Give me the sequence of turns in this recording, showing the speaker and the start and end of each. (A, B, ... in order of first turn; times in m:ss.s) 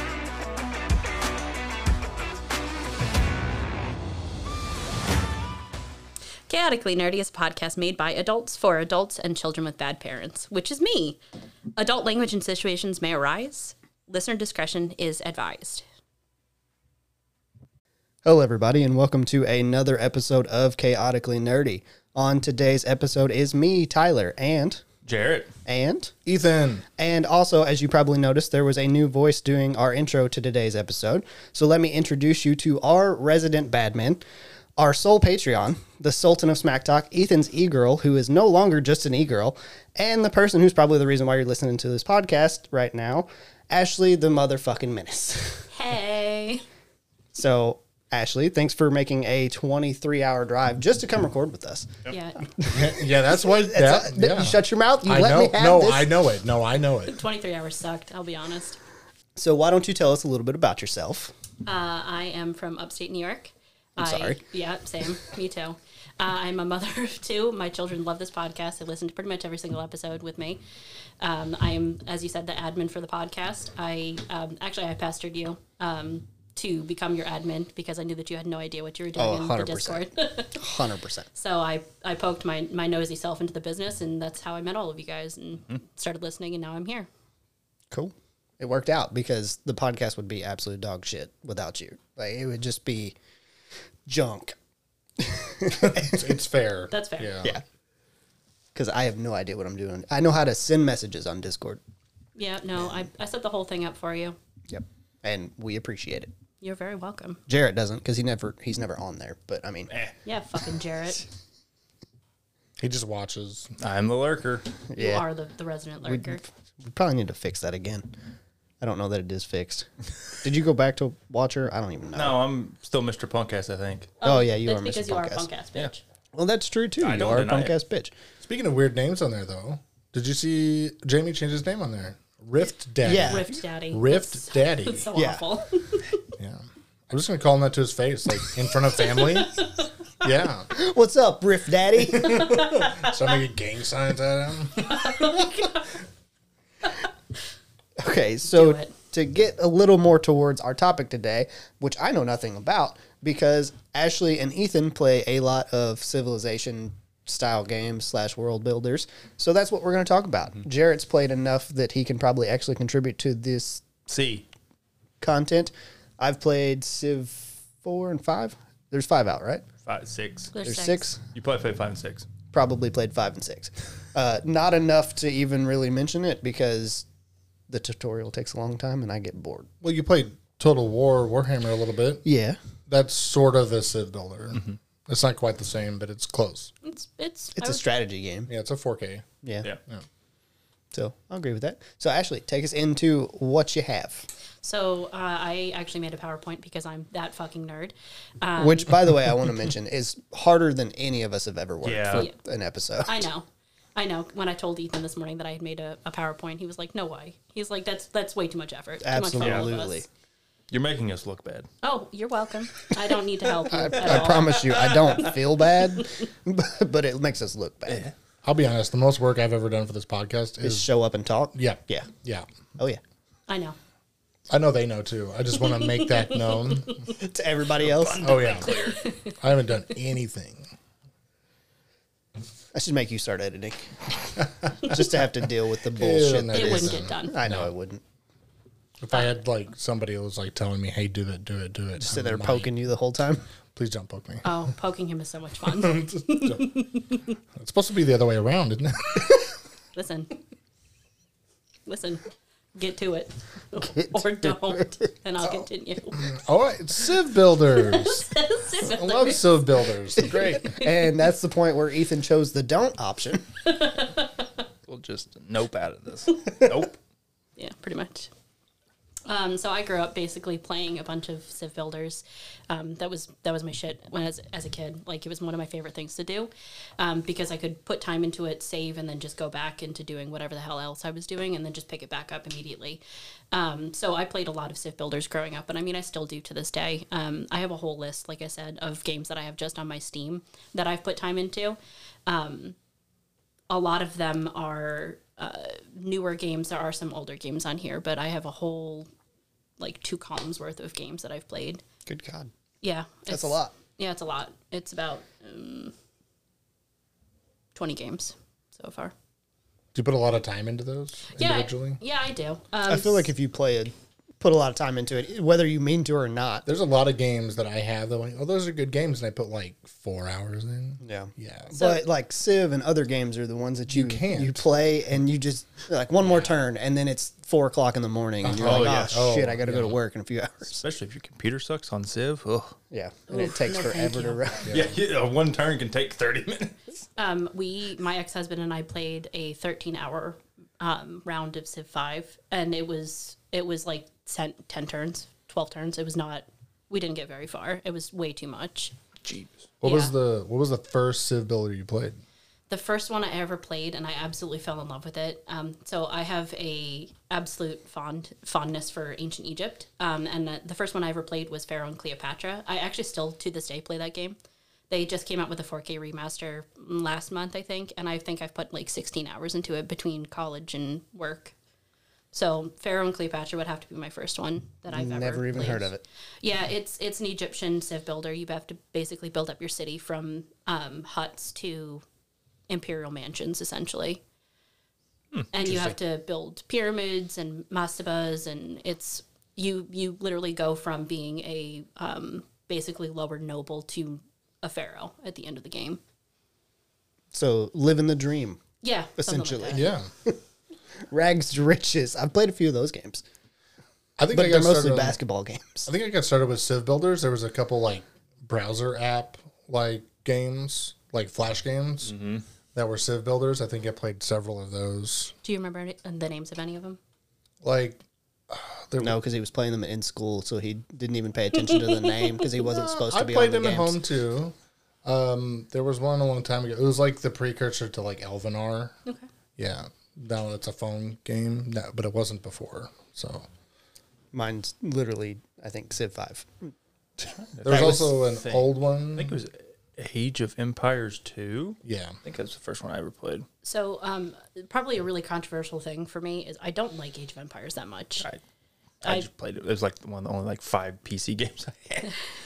0:06.5-0:11.2 A
0:11.8-0:15.8 A
0:18.2-0:24.8 B
0:25.0-0:25.5 C
0:25.6-0:26.2 B
0:26.3-0:26.9 D
0:27.0-0:34.2 B
0:34.8-0:45.7 B
0:45.7-0:46.6 A
0:47.3-0:52.0 B
0:52.1-0:52.4 A
0:52.5-0:56.1 B
0:52.6-0:57.2 D
0:57.1-0:58.8 A
0:59.4-1:01.3 B
1:01.6-1:10.6 A
1:04.0-1:04.4 B
1:11.2-1:20.8 A
1:19.2-1:21.3 B
1:21.4-1:27.1 A
1:27.9-1:33.2 B
1:34.1-1:34.6 B
1:35.2-1:36.3 B
1:35.7-1:37.6 D
1:36.9-1:37.3 A
1:38.7-1:41.8 B
1:42.4-1:44.4 A
1:44.7-1:46.3 B
1:46.6-1:47.4 A
1:47.5-1:49.9 B
1:50.2-1:51.2 A
1:52.8-1:53.7 D
1:53.8-1:54.7 C
1:54.9-1:55.3 B
1:55.0-1:56.4 A
1:56.0-1:58.1 B
1:58.8-1:59.9 B
2:00.4-2:02.4 B
2:02.2-2:04.2 C
2:04.2-2:05.5 B
2:04.2-2:06.0 A
2:06.3-2:08.1 B
2:07.0-2:07.8 C
2:08.4-2:15.1 D
2:13.0-2:13.6 B
2:13.3-2:16.2 A
2:15.1-2:15.4 B
2:16.4-2:19.7 D
2:19.0-2:19.9 A
2:20.2-2:20.7 D
2:20.7-2:22.6 B
2:22.0-2:25.7 D
2:22.4-2:23.1 A
2:24.8-2:26.0 A
2:28.0-2:43.9 B
2:28.5-2:28.9 A
2:44.1-2:44.5 C
2:45.2-2:49.6 B
2:49.8-2:50.6 C
2:50.5-2:51.1 A
2:50.6-2:51.2 B
2:51.3-2:52.3 C
2:52.5-2:57.1 B
2:57.7-2:59.7 B
2:59.8-3:02.3 D
3:02.2-3:02.6 B
3:02.9-3:06.7 D
3:06.8-3:07.8 A
3:07.6-3:08.5 B
3:08.5-3:09.3 D
3:10.9-3:14.3 B
3:14.6-3:18.9 A
3:18.6-3:23.3 B
3:21.8-3:22.3 C
3:23.0-3:30.1 A
3:29.0-3:30.1 B
3:29.4-3:29.8 C
3:30.7-3:31.7 C
3:31.8-3:34.9 A
3:33.7-3:38.1 B
3:34.0-3:35.4 C
3:38.4-3:40.9 D
3:40.6-3:42.1 B
3:41.5-3:42.5 D
3:43.5-3:43.8 A
3:44.5-3:47.1 D
3:45.6-3:47.1 A
3:47.1-3:48.4 B
3:47.8-3:49.0 C
3:48.2-3:50.7 D
3:48.6-3:49.4 A
3:52.7-3:58.0 B
3:54.6-3:55.1 D
3:56.0-3:57.7 D
3:56.5-3:57.4 A
3:59.0-4:02.7 D
4:02.0-4:03.4 B
4:03.8-4:04.7 D
4:04.4-4:07.3 A
4:05.6-4:06.7 D
4:07.6-4:09.5 D
4:10.0-4:10.3 A
4:11.9-4:16.3 A
4:13.8-4:14.8 B
4:15.4-4:20.8 D
4:17.7-4:19.7 A
4:20.2-4:23.5 B
4:23.6-4:24.6 A
4:24.9-4:27.0 C
4:27.6-4:28.3 A
4:29.3-4:43.0 A
4:43.5-4:52.8 A
4:53.7-4:59.1 A
4:59.8-5:01.8 A
5:02.1-5:02.5 B
5:02.8-5:05.9 A
5:03.3-5:03.8 B
5:07.8-5:09.1 A
5:09.9-5:12.0 D
5:11.3-5:13.3 A
5:12.9-5:16.7 B
5:16.7-5:21.8 D
5:21.0-5:30.8 B
5:21.7-5:22.0 A
5:23.9-5:24.6 D
5:26.3-5:26.5 C
5:28.4-5:30.0 D
5:28.6-5:29.2 C
5:30.7-5:32.8 C
5:32.9-5:34.8 B
5:33.3-5:34.4 A
5:34.7-5:35.0 D
5:34.7-5:36.8 C
5:37.2-5:49.0 A
5:49.2-5:49.6 C
5:49.8-5:52.2 D
5:49.8-5:50.1 A
5:52.7-6:04.4 A
6:04.9-6:11.5 A
6:12.3-6:15.9 A
6:14.9-6:16.0 B
6:16.4-6:22.0 A
6:22.7-6:24.2 A
6:25.5-6:36.0 A
6:37.3-6:38.6 B
6:38.8-6:39.9 A
6:39.2-6:40.4 B
6:39.7-6:40.1 D
6:41.1-6:43.2 B
6:44.2-6:45.2 D
6:44.3-6:45.9 B
6:45.9-6:52.2 D
6:52.1-6:52.4 C
6:52.7-6:55.3 D
6:55.4-6:57.0 A
6:57.6-6:59.2 D
6:59.0-7:04.0 B
7:01.6-7:02.5 A
7:02.6-7:04.5 D
7:05.0-7:08.9 D
7:09.6-7:13.5 D
7:14.3-7:16.7 B
7:17.3-7:18.1 B
7:17.6-7:23.5 C
7:17.6-7:19.4 D
7:21.8-7:22.2 D
7:23.6-7:28.3 A
7:29.0-7:32.2 C